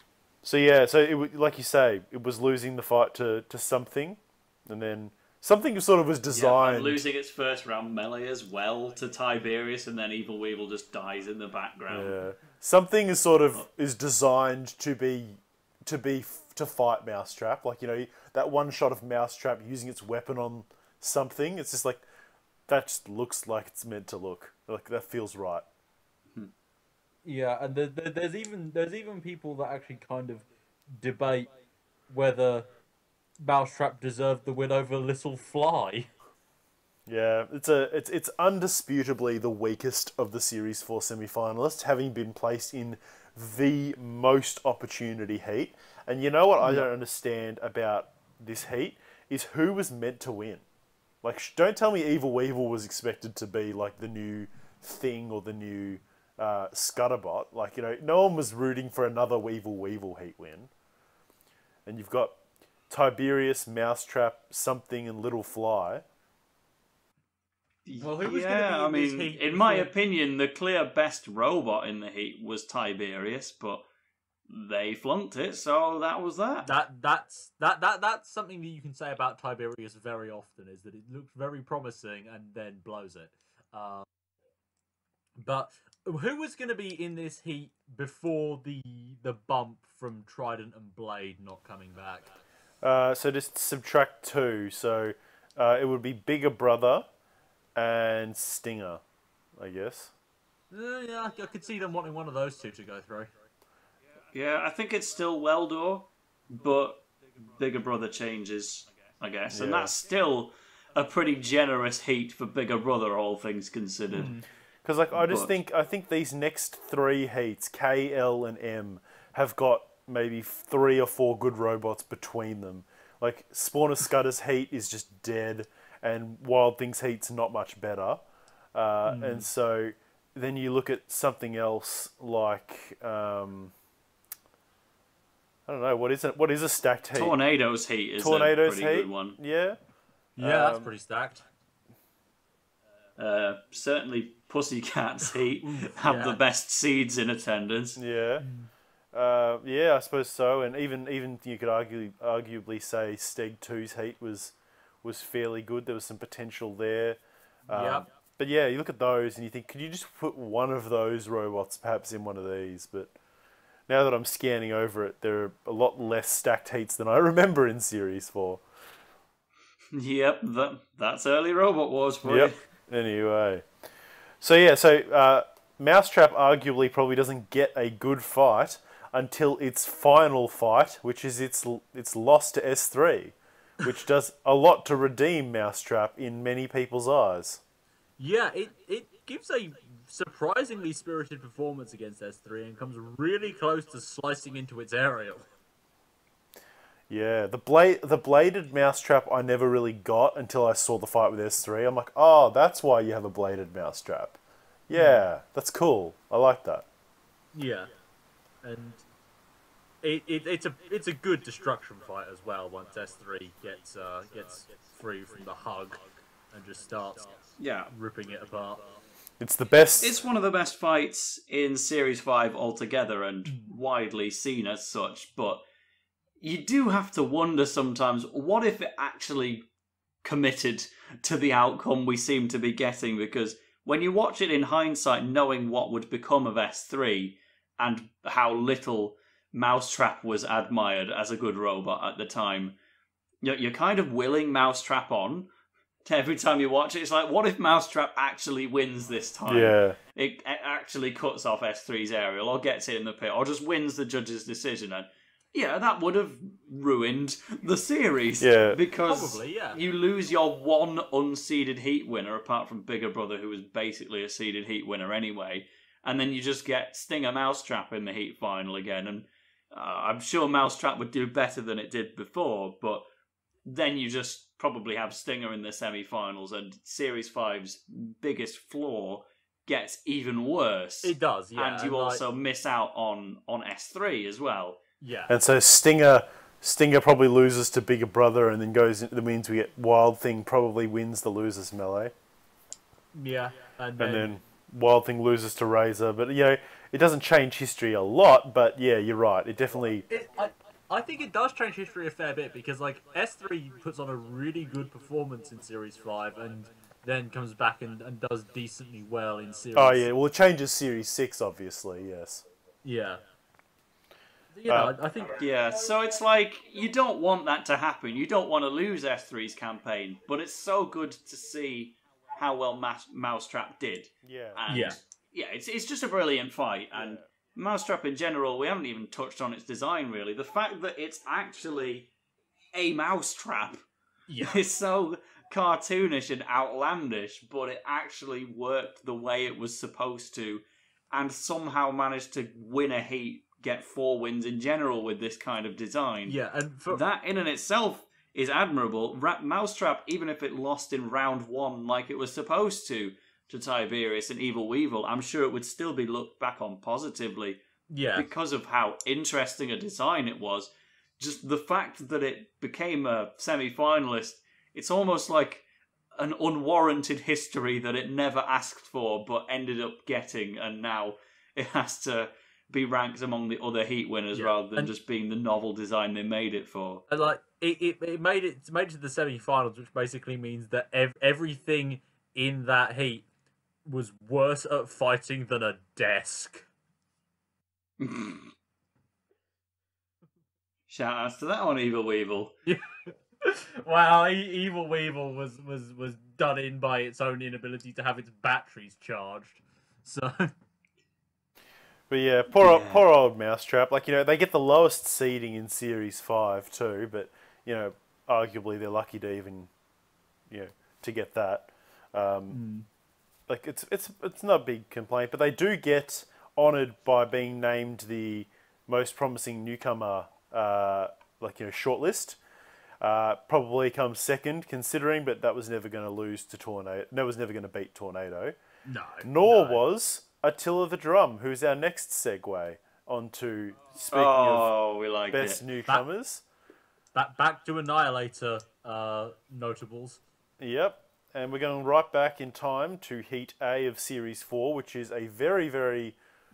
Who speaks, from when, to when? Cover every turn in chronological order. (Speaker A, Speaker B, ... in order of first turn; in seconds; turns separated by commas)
Speaker A: 0.4-7.0, Speaker B: 6.3-12.2, Speaker A: 11.9-22.0, Speaker A: 22.7-25.6, Speaker C: 27.2-31.5, Speaker C: 32.1-32.7, Speaker C: 33.4-36.1, Speaker A: 37.0-50.6, Speaker C: 46.6-46.9, Speaker A: 51.2-60.7, Speaker A: 61.9-62.4, Speaker A: 62.9-66.0, Speaker B: 67.8-73.8, Speaker C: 68.0-69.9, Speaker B: 74.5-76.7, Speaker C: 76.6-84.0, Speaker C: 85.4-92.4, Speaker A: 92.8-97.0, Speaker A: 97.8-99.0, Speaker A: 99.6-100.1, Speaker C: 100.7-103.3, Speaker B: 104.3-114.3, Speaker A: 109.5-109.9, Speaker C: 114.1-114.4, Speaker A: 114.8-128.2, Speaker B: 115.1-115.5, Speaker A: 128.7-133.7, Speaker C: 129.1-129.5, Speaker A: 135.7-137.3, Speaker B: 137.1-139.4, Speaker A: 138.2-139.8, Speaker A: 140.4-140.9, Speaker C: 140.4-141.4, Speaker B: 143.2-148.0, Speaker C: 145.6-146.4, Speaker A: 147.9-148.4, Speaker C: 148.4-148.7, Speaker A: 149.1-163.1, Speaker C: 157.7-158.1, Speaker A: 163.9-168.6, Speaker B: 169.9-172.6, Speaker A: 172.2-173.7, Speaker A: 174.4-187.6, Speaker C: 188.2-195.4, Speaker A: 197.1-206.8, Speaker C: 204.9-205.2, Speaker C: 207.5-207.9, Speaker C: 208.6-209.0, Speaker C: 210.0-218.9, Speaker B: 217.6-217.9, Speaker A: 219.4-220.2, Speaker B: 220.0-225.6, Speaker B: 226.4-229.7, Speaker B: 230.2-242.8, Speaker B: 243.4-245.5, Speaker B: 246.0-273.1, Speaker A: 249.5-250.0, Speaker A: 258.4-258.8, Speaker C: 259.1-259.8, Speaker B: 273.6-284.8, Speaker C: 281.0-282.2, Speaker C: 285.0-285.3, Speaker A: 285.3-292.1, Speaker C: 293.1-294.4, Speaker A: 294.0-300.1, Speaker C: 300.1-310.1, Speaker A: 309.7-312.4, Speaker C: 312.8-313.2, Speaker C: 314.5-315.4, Speaker A: 314.7-314.9, Speaker B: 315.4-332.1, Speaker A: 324.2-324.6, Speaker C: 324.7-325.0, Speaker A: 326.9-327.2, Speaker B: 332.7-333.8, Speaker C: 334.3-334.6, Speaker B: 334.4-346.4, Speaker C: 346.2-347.0, Speaker B: 346.9-357.6, Speaker C: 357.9-358.3, Speaker B: 358.1-365.6, Speaker B: 366.1-377.0, Speaker C: 374.3-374.9, Speaker C: 377.1-383.3, Speaker C: 383.8-386.6, Speaker B: 388.0-388.5, Speaker B: 390.9-392.5, Speaker C: 392.6-400.5, Speaker A: 402.1-409.7, Speaker B: 402.6-403.0, Speaker A: 410.5-412.6, Speaker C: 412.5-412.9, Speaker A: 413.5-422.4, Speaker A: 423.0-428.5, Speaker C: 428.9-429.8, Speaker A: 429.2-434.7, Speaker B: 434.1-435.6, Speaker A: 435.3-436.4, Speaker C: 437.1-440.2, Speaker A: 440.6-446.1